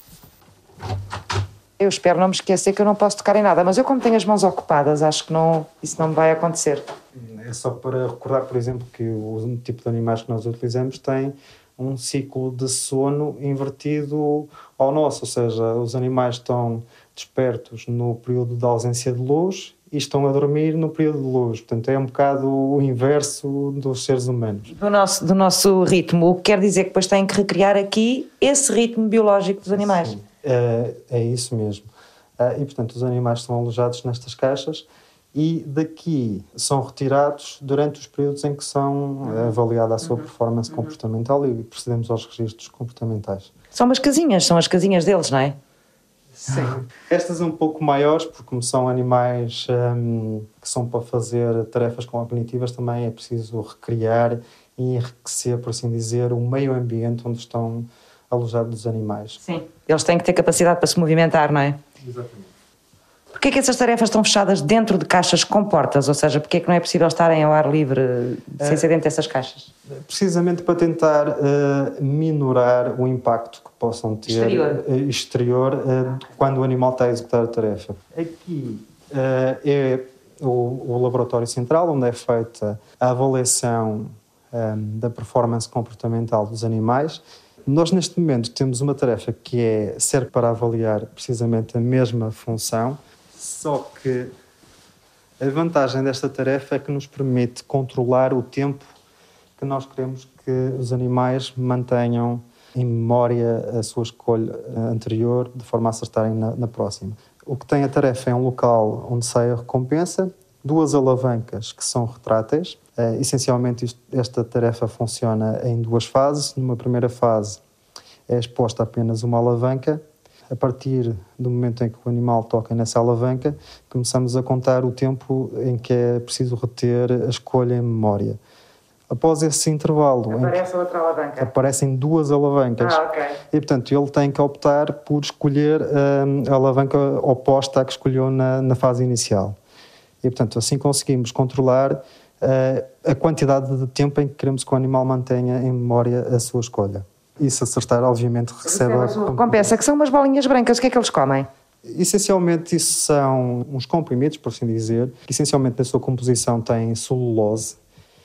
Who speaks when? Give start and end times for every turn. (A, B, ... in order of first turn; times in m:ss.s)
0:01.8-0:06.9 A
0:07.2-0:24.7 B
0:24.7-0:30.1 A
0:29.7-0:31.9 B
0:32.4-0:43.5 B
0:43.7-0:45.6 A
0:46.4-0:59.4 B
0:59.4-1:01.8 A
1:02.0-1:02.5 B
1:03.3-1:09.7 A
1:08.6-1:08.8 B
1:10.1-1:34.3 B
1:14.3-1:14.8 A
1:35.4-1:38.9 B
1:39.6-1:57.6 B
1:58.3-2:08.4 B
2:09.1-2:10.6 B
2:10.3-2:11.5 A
2:11.4-2:19.6 B
2:12.8-2:13.4 A
2:20.2-2:29.8 B
2:28.7-2:31.5 A
2:31.8-2:37.8 B